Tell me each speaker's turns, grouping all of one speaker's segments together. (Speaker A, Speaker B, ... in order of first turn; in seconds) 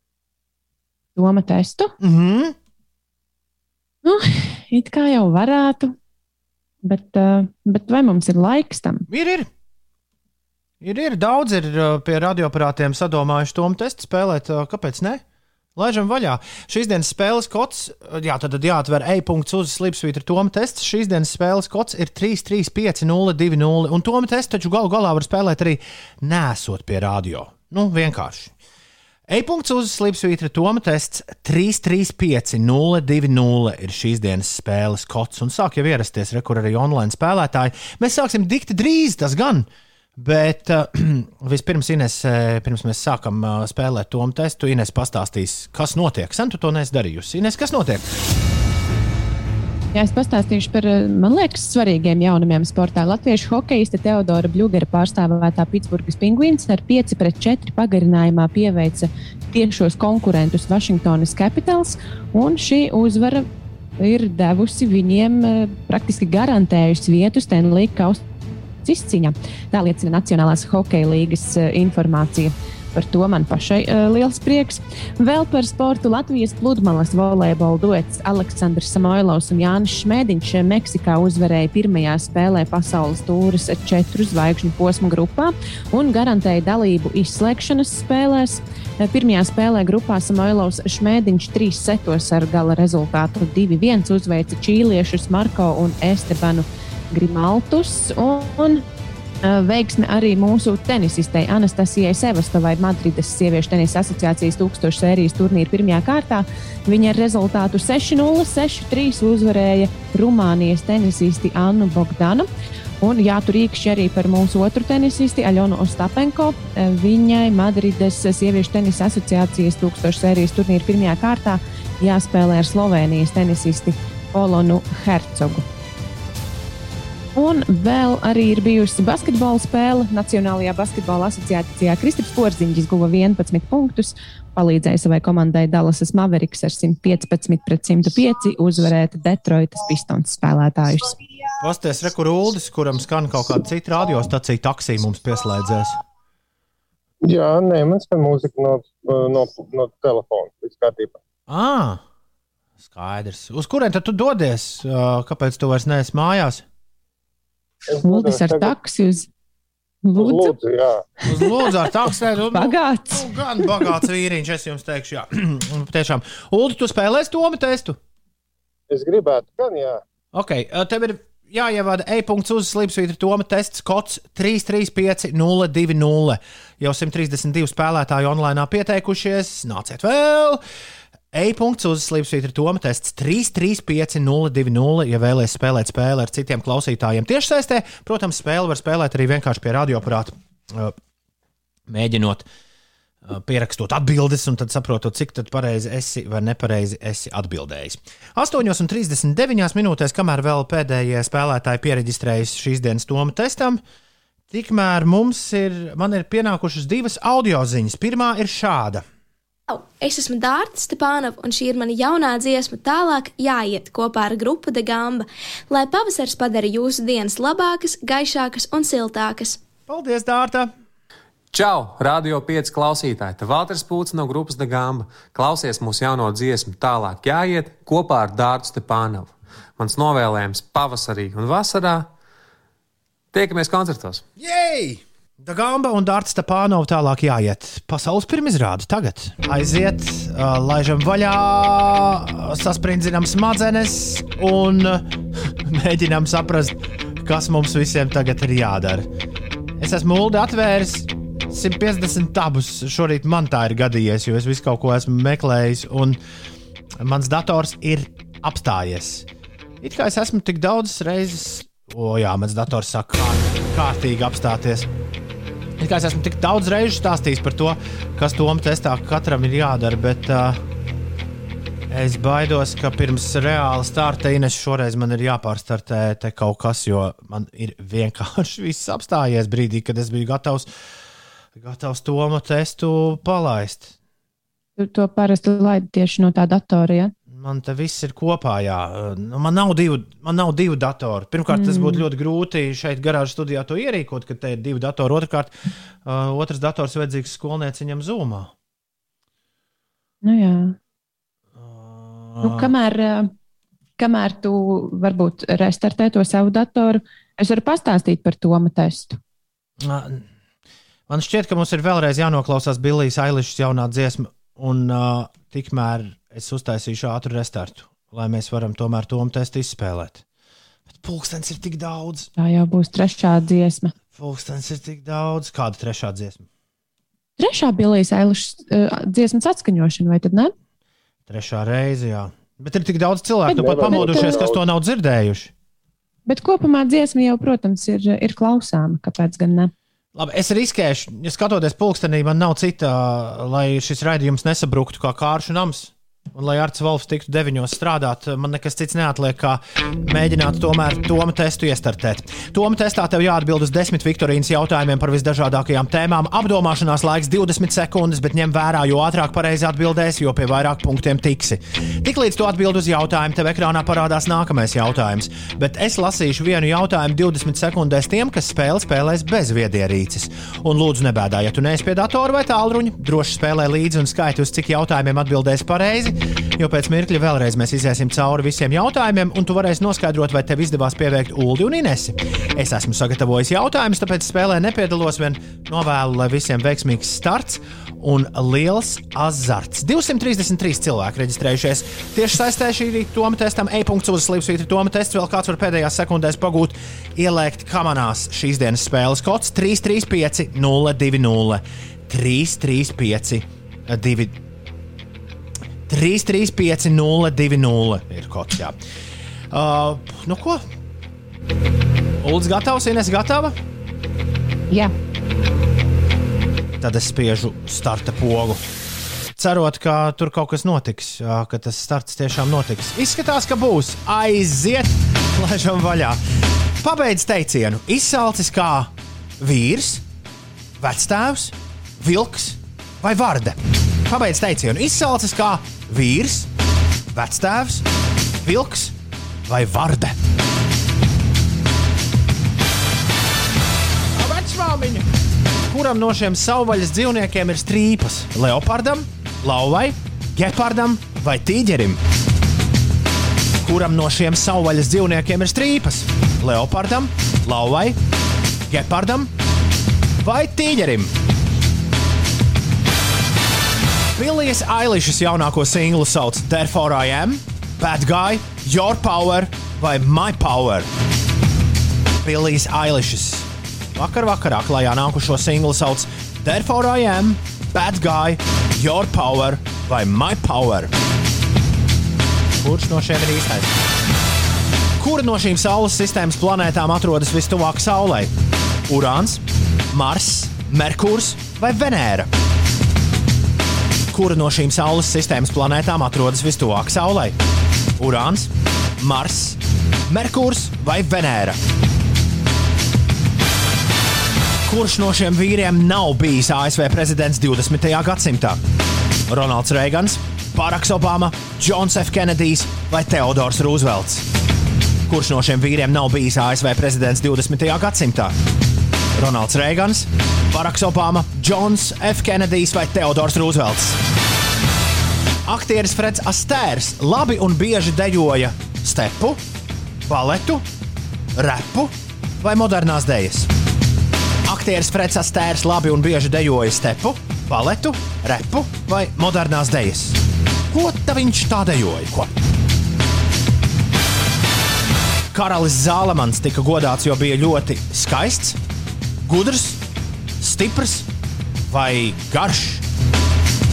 Speaker A: 1.2-1.9, 4.0-6.0, 6.8-9.1, 49.9-63.5, 64.0-68.2, 68.8-98.8, 99.4-112.5, 113.0-125.7, 127.3-141.1, 158.0-159.3, 160.0-160.6, 161.4-161.9, 162.5-163.9, 284.8-287.1, 291.5-292.1, 300.2-300.8, 302.4-303.3, 304.0-309.2, 322.4-323.9, 327.4-330.5, 333.5-334.4, 336.3-339.7
Speaker B: 2.0-2.6, 9.1-9.5, 10.8-15.2, 15.8-28.5, 29.3-48.1, 141.6-146.0, 151.5-152.0, 152.8-156.6, 161.2-168.0, 170.3-180.6, 181.3-191.0, 191.9-192.5, 193.2-203.8, 204.5-209.0, 219.9-220.7, 234.4-249.1, 249.8-256.2, 257.0-259.3, 259.8-264.9, 265.8-270.6, 271.9-280.7, 281.6-283.9, 287.3-295.5, 296.1-298.5, 301.5-302.7, 309.8-310.3, 311.1-320.2, 320.9-322.3, 324.1-326.5, 331.3-335.5, 340.1-404.4, 405.9-408.8, 409.5-410.6, 412.2-413.6, 416.8-418.6, 419.4-426.2, 426.8-430.0, 430.8-436.5, 437.1-437.9, 438.4-438.9, 439.4-440.2, 444.1-445.1, 445.7-452.0, 453.6-458.0, 458.7-459.3, 460.2-461.1, 464.1-470.9, 472.2-480.9, 482.6-483.8, 485.0-488.3, 488.9-492.3, 494.1-497.4, 498.0-501.6, 504.7-508.6, 509.3-514.3, 515.1-518.4, 519.2-524.0, 525.5-529.4, 530.1-530.6, 531.4-533.5, 534.5-540.2, 540.7-542.3, 545.3-548.6, 549.2-549.8, 550.4-551.1, 551.7-552.9
Speaker C: 147.2-151.2, 157.9-158.7, 160.2-161.1, 168.9-170.0, 333.5-334.6
Speaker D: 209.7-219.6
Speaker E: 221.5-232.1, 233.3-234.2